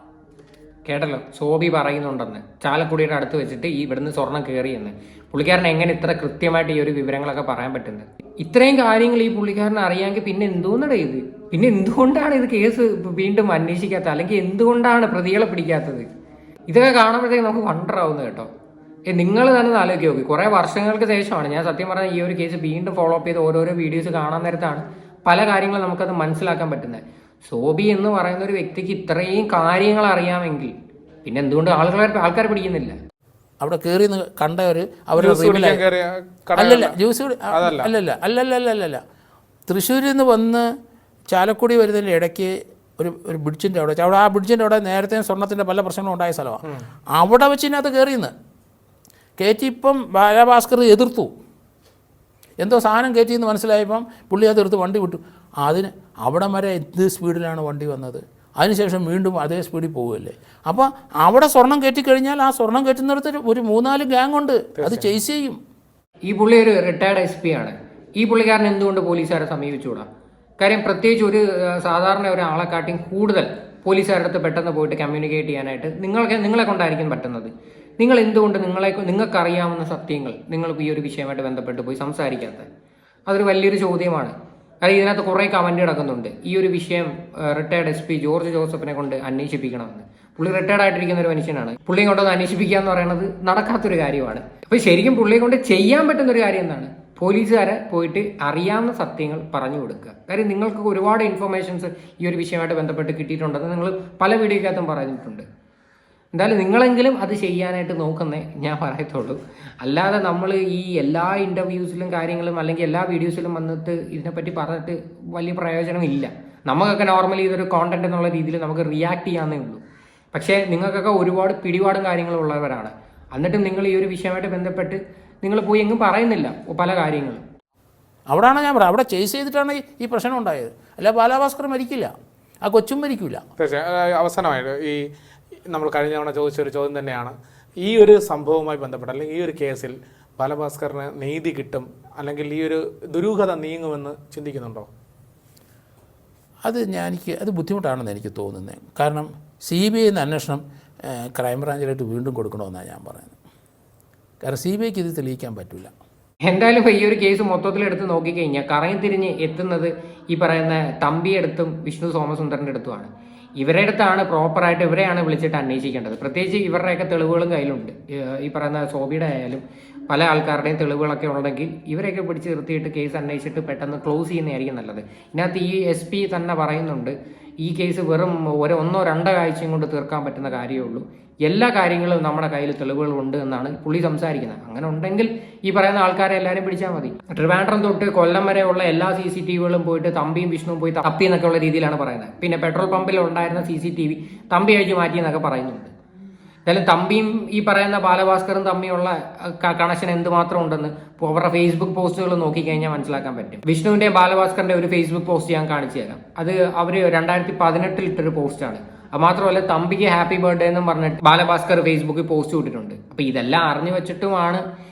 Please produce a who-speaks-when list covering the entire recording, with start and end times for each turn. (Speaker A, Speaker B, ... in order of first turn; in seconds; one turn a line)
Speaker A: 0.9-16.1
Speaker A: 16.7-18.5
Speaker A: 19.1-33.0
Speaker B: 33.6-35.8
Speaker C: 35.2-37.0
Speaker B: 36.6-39.0
Speaker C: 37.5-37.9
Speaker B: 39.7-40.7
Speaker B: 41.3-48.3
Speaker B: 49.4-51.3
Speaker B: 52.6-65.6
Speaker C: 64.8-65.1
Speaker A: 66.3-70.1
Speaker A: 70.6-82.7
Speaker A: 83.3-105.5
Speaker A: 106.3-119.8
Speaker A: 120.3-127.5
Speaker B: 128.3-132.1
Speaker B: 132.6-133.4
Speaker C: 133.6-135.1
Speaker C: 135.7-144.9
Speaker B: 146.7-153.4
Speaker B: 154.4-155.9
Speaker A: 156.4-195.9
Speaker A: 196.7-214.6